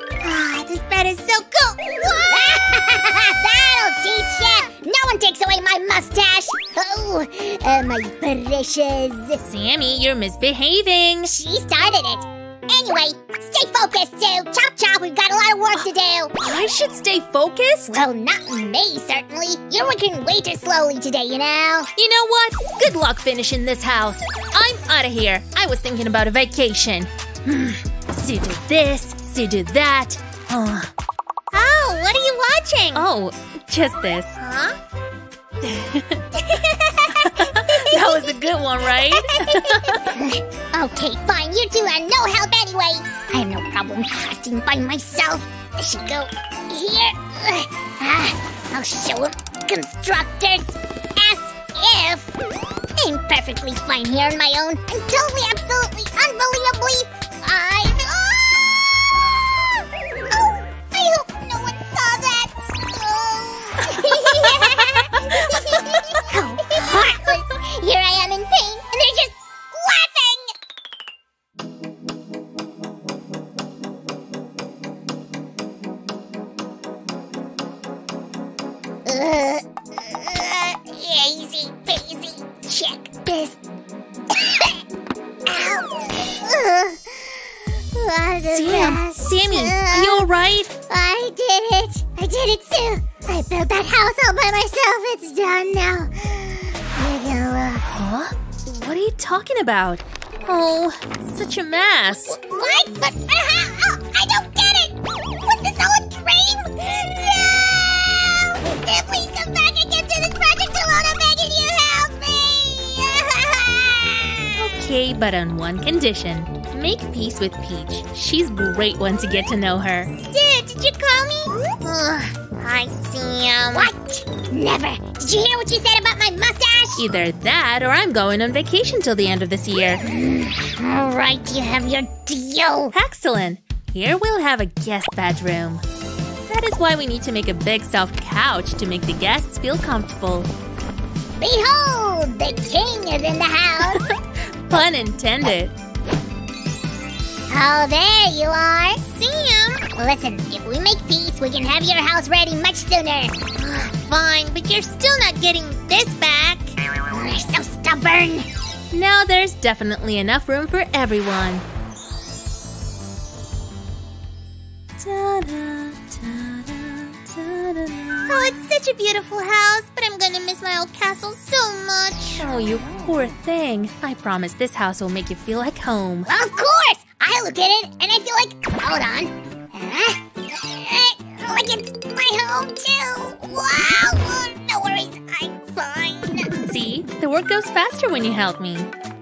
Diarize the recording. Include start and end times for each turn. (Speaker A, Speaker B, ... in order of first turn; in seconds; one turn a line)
Speaker A: 0.2-9.4
Speaker B: 9.4-11.3
Speaker A: 11.2-16.4
Speaker B: 16.4-18.0
Speaker A: 17.9-21.9
Speaker B: 22.0-30.9
Speaker A: 31.5-33.0
Speaker B: 32.9-34.3
Speaker A: 34.4-34.8
Speaker B: 35.6-36.3
Speaker A: 36.4-38.4
Speaker B: 37.2-40.1
Speaker A: 39.0-52.4
Speaker A: 53.0-70.5
Speaker B: 64.7-66.0
Speaker A: 79.0-83.6
Speaker A: 84.4-84.8
Speaker A: 85.5-90.3
Speaker B: 88.5-90.7
Speaker A: 90.9-97.8
Speaker B: 97.9-102.4
Speaker A: 102.3-114.5
Speaker B: 114.5-120.2
Speaker A: 120.3-127.0
Speaker B: 123.6-123.9
Speaker B: 127.0-130.0
Speaker A: 130.0-132.9
Speaker B: 132.9-135.8
Speaker B: 136.5-140.5
Speaker A: 141.4-144.0
Speaker B: 143.9-145.7
Speaker A: 147.5-158.5
Speaker B: 158.9-161.7
Speaker B: 165.0-168.3
Speaker A: 168.3-172.4
Speaker B: 172.4-176.3
Speaker A: 176.3-186.5
Speaker B: 186.5-188.9